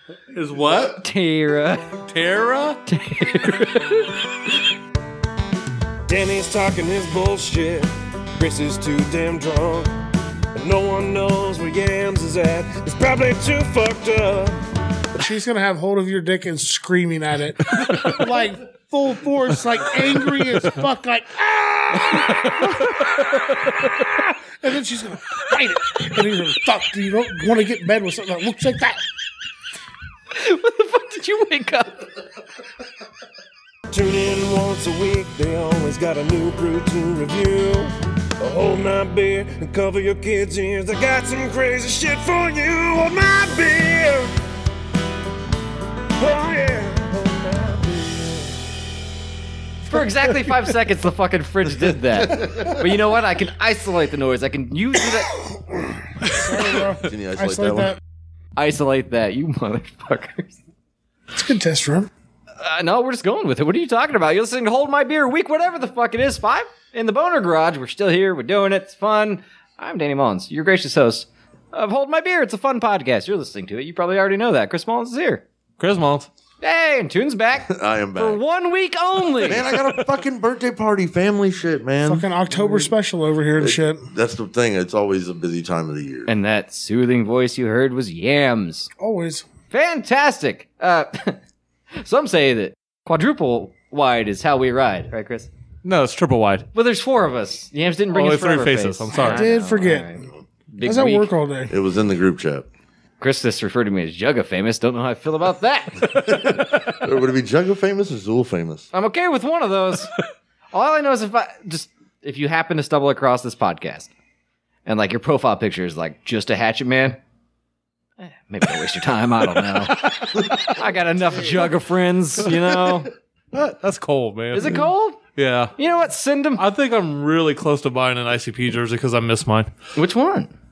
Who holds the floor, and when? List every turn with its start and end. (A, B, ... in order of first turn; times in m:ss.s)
0:00.3-0:01.0 A
0:00.5-0:00.9 B
0:00.9-0:01.8 C
0:02.1-0:02.8 A
0:02.9-0:04.2 C
0:06.1-0:09.9 D
0:10.6-0:14.6 D
0:15.2-0:29.0 E
0:17.8-0:18.2 A
0:20.4-0:20.6 A
0:22.1-0:22.4 A
0:30.3-0:32.1 C
0:33.9-0:44.3 D
0:46.2-0:48.5 D
0:49.9-0:55.3 C
0:52.2-0:52.7 B
0:56.2-0:58.0 E
0:56.2-0:56.6 A
0:57.0-0:58.0 B
0:58.6-1:00.6 C
1:01.3-1:02.1 E
1:02.6-1:15.4 C
1:15.8-1:16.3 A
1:16.6-1:19.7 C
1:17.6-1:18.4 B
1:19.4-1:22.9 B
1:22.0-1:24.0 E
1:23.6-1:26.3 B
1:26.3-1:28.9 C
1:29.0-1:29.4 E
1:29.7-1:31.4 C
1:31.9-1:35.5 C
1:35.8-1:36.7 A
1:36.7-1:41.3 C
1:38.1-1:39.5 A
1:39.1-1:40.1 E
1:40.8-1:41.7 E
1:41.7-1:42.7 B
1:43.2-1:46.3 C
1:46.2-1:48.9 B
1:48.9-1:50.1 C
1:50.7-1:54.1 C
1:54.8-1:57.2 C
1:58.2-2:03.1 C
1:59.6-2:00.7 A
2:01.4-2:01.7 A
2:02.4-2:03.0 A
2:03.5-2:05.7 A
2:04.5-2:05.2 C
2:05.8-2:06.6 C
2:06.6-2:09.7 A
2:09.9-2:10.5 C